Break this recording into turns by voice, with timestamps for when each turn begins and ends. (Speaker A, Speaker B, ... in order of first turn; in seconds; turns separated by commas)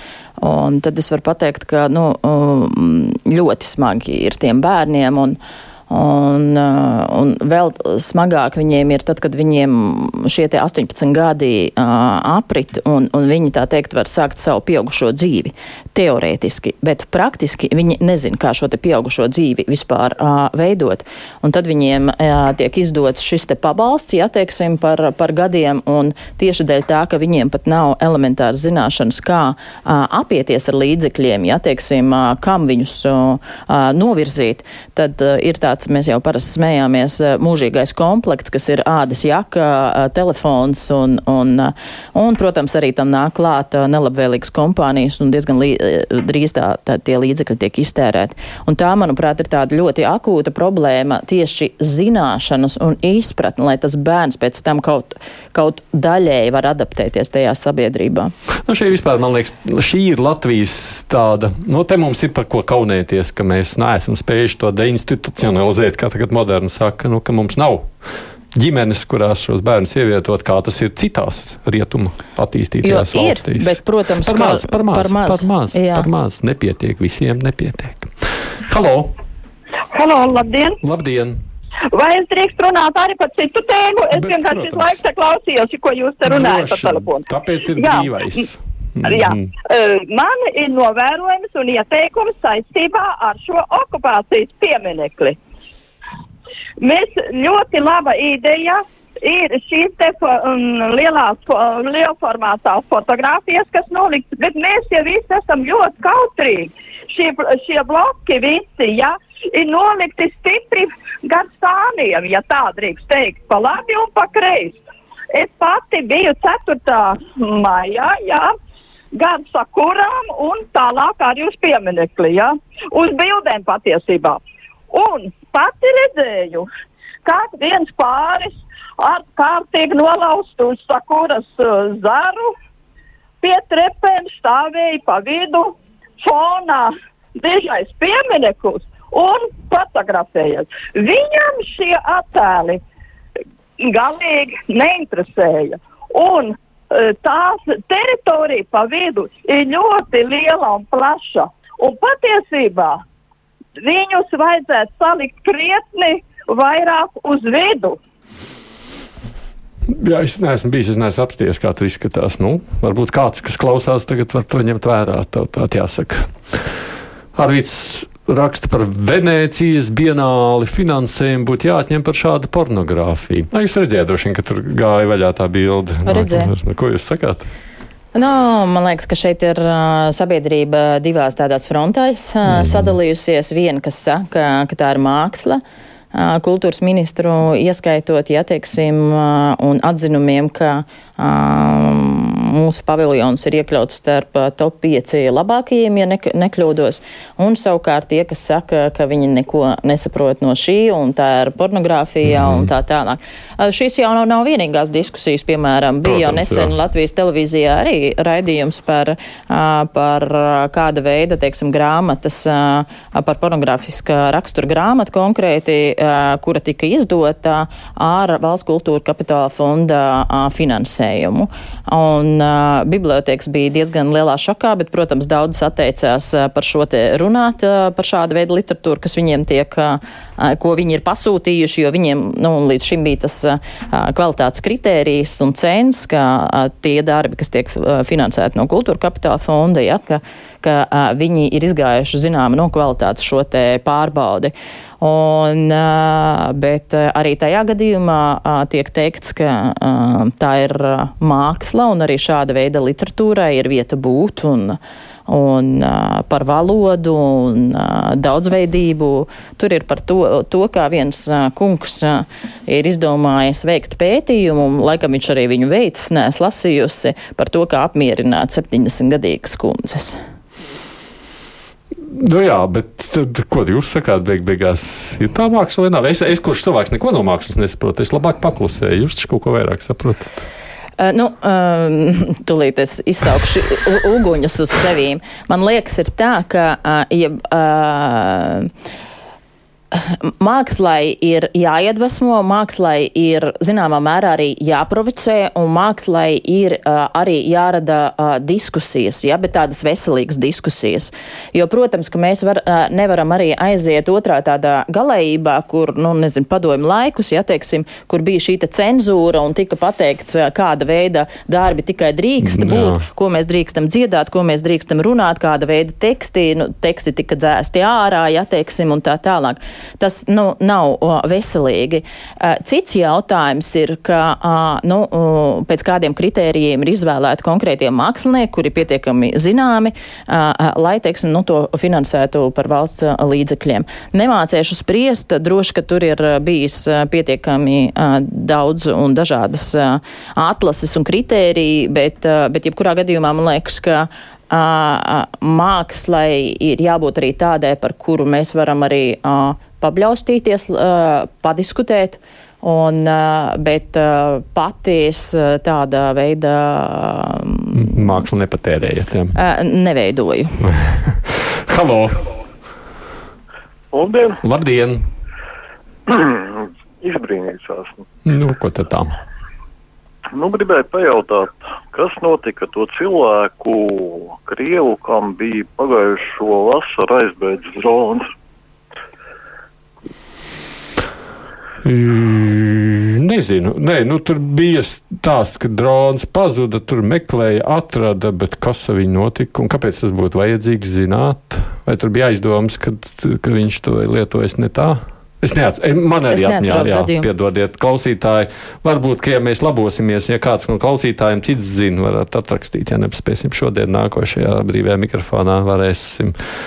Speaker A: 0.4-5.4, Speaker A: 5.9-58.3, Speaker B: 58.6-67.9, Speaker B: 68.5-79.2, Speaker A: 72.8-76.1, Speaker C: 79.9-80.8, Speaker B: 80.8-81.4, Speaker C: 81.9-88.5, Speaker B: 84.1-85.0, Speaker B: 86.2-89.5, Speaker C: 89.0-95.4, Speaker C: 96.8-118.5, Speaker C: 119.1-126.7, Speaker C: 127.2-132.5, Speaker C: 133.4-142.8, Speaker C: 143.8-153.0, Speaker C: 153.8-158.0, Speaker B: 159.9-166.8, Speaker B: 167.3-177.5, Speaker A: 176.0-176.5, Speaker A: 178.1-185.6, Speaker B: 182.5-182.9, Speaker A: 186.1-270.2, Speaker B: 202.2-202.7, Speaker B: 206.0-206.8, Speaker B: 272.1-280.4, Speaker A: 281.0-288.7, Speaker A: 289.9-358.1, Speaker B: 312.4-313.0, Speaker B: 357.7-359.3, Speaker A: 359.3-360.6, Speaker B: 360.6-362.3, Speaker D: 363.9-364.4, Speaker B: 364.4-365.1, Speaker D: 366.1-368.0, Speaker B: 368.2-369.2, Speaker D: 370.3-378.3, Speaker B: 381.8-406.4, Speaker A: 396.3-397.3